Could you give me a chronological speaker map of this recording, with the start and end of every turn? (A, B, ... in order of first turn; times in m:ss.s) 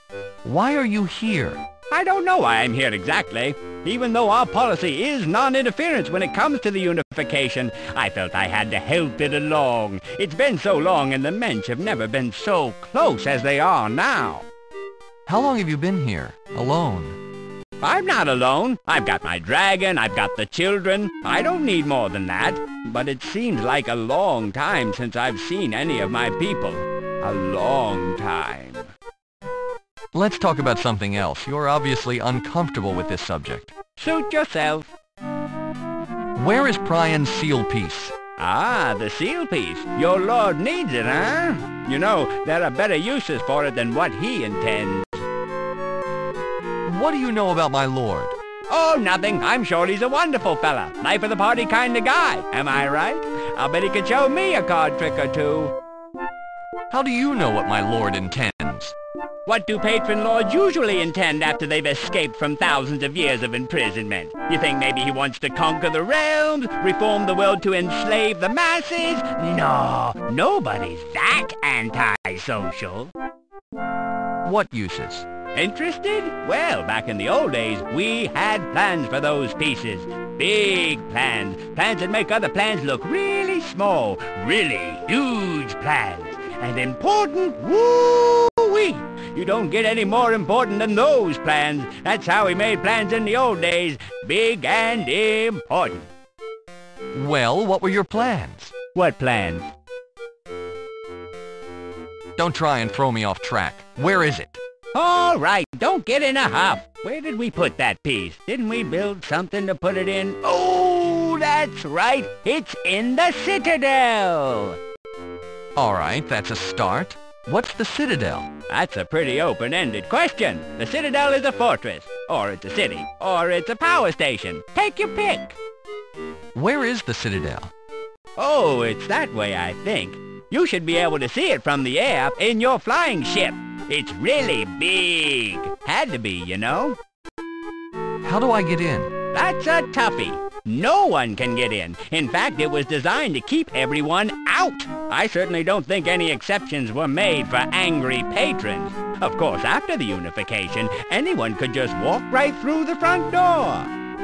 0:00.4-0:01.6 A
0:01.9-0:14.4 B
0:15.3-0:17.2 A
0:17.8-0:28.9 B
0:30.1-0:33.7 A
0:34.0-0:34.9 B
0:36.4-0:38.1 A
0:38.4-0:45.2 B
0:46.8-0:48.4 A
0:48.7-0:55.7 B
0:56.9-0:58.9 A
0:59.4-1:13.1 B
1:14.4-1:15.2 A
1:15.5-1:36.1 B
1:37.1-1:38.7 A
1:38.9-1:39.7 B
1:42.4-1:44.6 A
1:44.9-1:54.8 B
1:55.8-1:58.5 A
1:58.7-2:05.6 B
2:06.5-2:07.7 A
2:08.4-2:17.0 B
2:18.2-2:19.1 A
2:19.3-2:33.9 B